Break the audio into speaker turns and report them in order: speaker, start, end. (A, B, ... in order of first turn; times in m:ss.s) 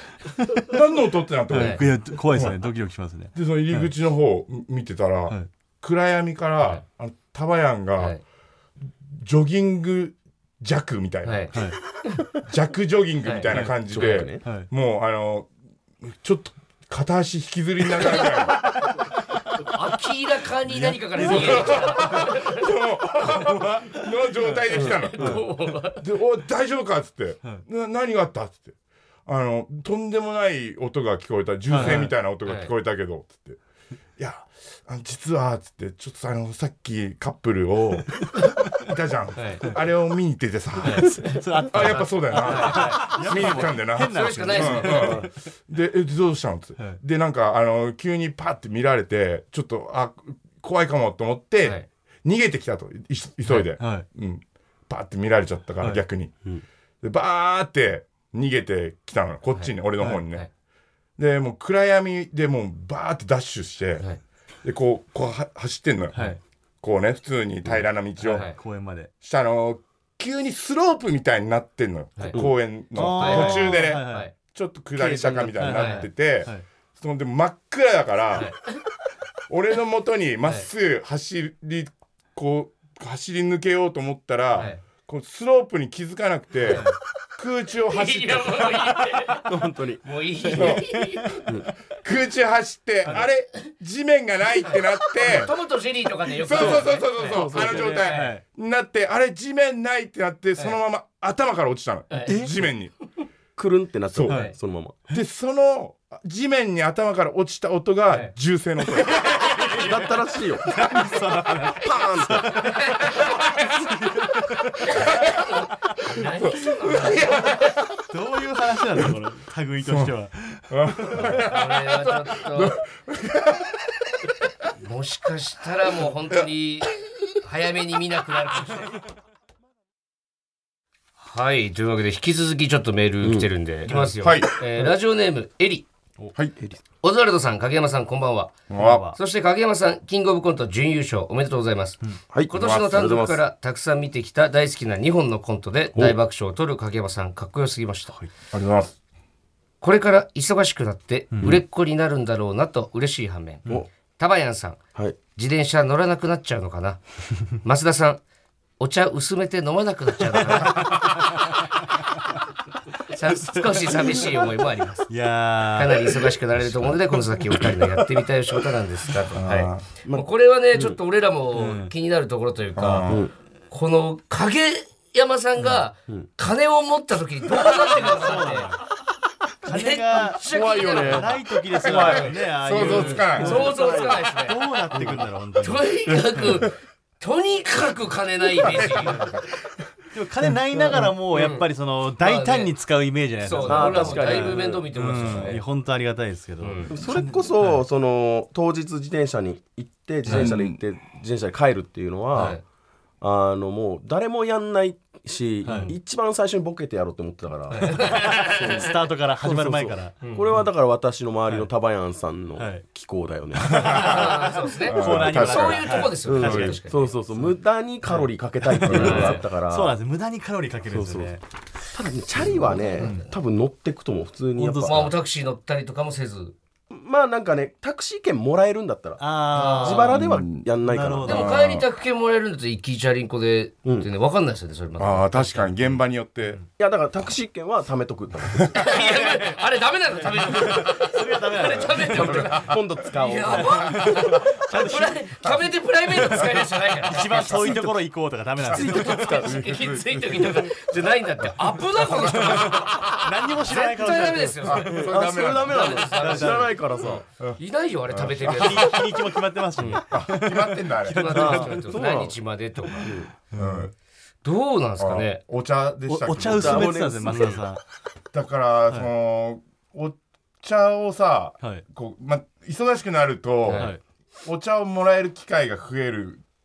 0:00.2-0:00.6 A
0:00.6-0:02.6 B
0:01.5-0:03.9 A
0:01.5-0:01.8 C
0:03.4-0:08.2 B
0:09.1-0:11.7 B
0:11.2-0:11.5 C
0:12.4-0:15.5 B
0:13.5-0:13.8 A
0:13.9-0:14.4 D
0:14.4-0:14.7 A
0:16.0-0:18.8 B
0:19.6-0:22.7 C
0:20.7-0:22.3 A
0:21.2-0:25.4 B
0:23.3-0:23.6 C
0:24.7-0:26.0 C
0:24.7-0:25.3 D
0:26.0-0:28.7 B
0:29.3-0:33.6 B
0:31.7-0:32.1 A
0:31.8-0:32.7 C
0:34.2-0:56.4 B
0:39.4-0:39.6 C
0:40.8-0:45.3 A
0:40.8-0:41.4 C
0:42.4-0:45.3 C
0:53.5-0:54.1 A
0:57.0-1:00.5 B
1:01.2-1:04.1 B
1:04.6-1:06.2 B
1:06.1-1:06.4 A
1:06.8-1:08.5 B
1:08.2-1:09.1 A
1:08.2-1:08.6 C
1:09.2-1:18.5 B
1:12.9-1:14.3 A
1:13.0-1:14.3 C
1:15.0-1:15.5 D
1:15.6-1:16.6 A
1:15.7-1:16.1 C
1:18.3-1:18.6 C
1:19.5-1:29.0 B
1:26.7-1:27.0 A
1:27.9-1:29.4 C
1:29.5-1:30.7 D
1:30.0-1:31.4 C
1:30.5-1:31.0 B
1:30.6-1:31.2 A
1:31.9-1:35.5 B
1:34.6-1:38.4 C
1:36.4-1:43.0 B
1:37.3-1:38.0 D
1:37.5-1:38.4 A
1:42.1-1:42.4 C
1:42.3-1:42.5 D
1:43.6-1:45.0 D
1:44.1-1:44.4 B
1:45.1-1:49.5 B
1:49.0-1:52.9 A
1:49.8-1:50.6 D
1:51.8-1:52.7 D
1:52.5-1:53.4 C
1:53.8-1:54.6 A
1:54.8-1:55.5 B
1:54.9-1:57.7 C
1:56.2-1:57.8 B
1:58.1-2:01.4 A
1:59.8-2:00.1 B
2:00.7-2:03.8 B
2:01.4-2:02.8 C
2:04.8-2:08.9 C
2:11.2-2:15.9 C
2:13.2-2:13.5 D
2:13.9-2:14.2 A
2:14.2-2:14.6 B
2:17.0-2:28.2 C
2:18.7-2:19.0 B
2:18.7-2:19.2 A
2:22.3-2:23.4 D
2:22.6-2:23.2 B
2:28.5-2:28.9 B
2:29.8-2:33.6 C
2:31.3-2:31.6 A
2:34.2-2:34.8 C
2:35.4-2:38.2 C
2:38.8-2:41.2 C
2:40.5-2:41.4 A
2:43.1-2:45.1 C
2:43.4-2:44.3 A
2:45.1-2:47.8 A
2:45.6-2:53.2 C
2:49.4-2:49.9 B
2:50.1-2:51.0 D
2:51.6-2:51.9 A
2:52.8-2:53.3 B
2:53.7-2:58.7 C
2:57.9-2:58.8 A
2:59.6-3:05.8 A
2:59.7-3:01.3 C
3:00.4-3:02.3 D
3:00.6-3:01.2 B
3:01.8-3:03.7 B
3:01.9-3:04.6 C
3:02.9-3:04.3 D
3:04.9-3:05.2 D
3:05.6-3:09.4 C
3:10.1-3:17.8 A
3:10.7-3:11.1 D
3:11.3-3:11.7 C
3:12.2-3:12.7 C
3:13.4-3:15.6 C
3:13.6-3:14.8 D
3:16.6-3:16.9 C
3:16.9-3:22.6 D
3:20.3-3:20.5 C
3:20.3-3:20.8 B
3:22.4-3:22.6 C
3:23.2-3:33.9 D
3:25.6-3:26.0 A
3:25.7-3:26.0 C
3:27.7-3:28.8 C
3:27.9-3:30.7 A
3:30.2-3:30.5 C
3:32.6-3:32.8 A
3:33.6-3:41.4 A
3:33.7-3:36.8 B
3:33.8-3:37.0 C
3:36.3-3:39.9 D
3:38.8-3:39.4 B
3:39.0-3:39.4 C
3:40.9-3:41.4 D
3:41.9-3:45.1 D
3:42.5-3:43.3 A
3:42.8-3:43.3 C
3:44.6-3:45.1 A
3:44.8-3:46.6 C
3:46.9-3:51.6 D
3:49.2-3:51.6 A
3:49.5-3:50.1 C
3:50.1-3:50.7 B
3:51.2-3:51.8 B
3:51.3-3:55.9 C
3:55.0-3:56.6 B
3:56.8-3:58.8 D
3:58.8-4:07.5 C
3:58.8-3:59.6 A
4:00.2-4:02.5 A
4:02.1-4:04.0 D
4:02.1-4:02.8 B
4:03.5-4:05.1 A
4:04.7-4:05.0 D
4:06.2-4:06.5 B
4:07.0-4:09.5 A
4:07.3-4:08.0 D
4:08.7-4:09.6 D
4:08.7-4:10.7 B
4:09.0-4:16.8 C
4:11.9-4:13.3 B
4:12.1-4:14.9 A
4:14.6-4:16.0 B
4:14.9-4:17.2 D
4:16.1-4:17.1 A
4:17.0-4:19.0 B
4:17.6-4:19.1 C
4:18.4-4:22.1 A
4:20.1-4:21.8 B
4:21.1-4:23.1 C
4:21.8-4:22.4 D
4:23.0-4:23.3 D
4:23.0-4:23.9 A
4:23.5-4:23.9 B
4:24.4-4:25.4 C
4:25.0-4:27.0 B
4:26.1-4:27.8 A
4:26.5-4:27.6 D
4:28.3-4:36.4 B
4:33.6-4:33.9 C
4:33.7-4:34.0 A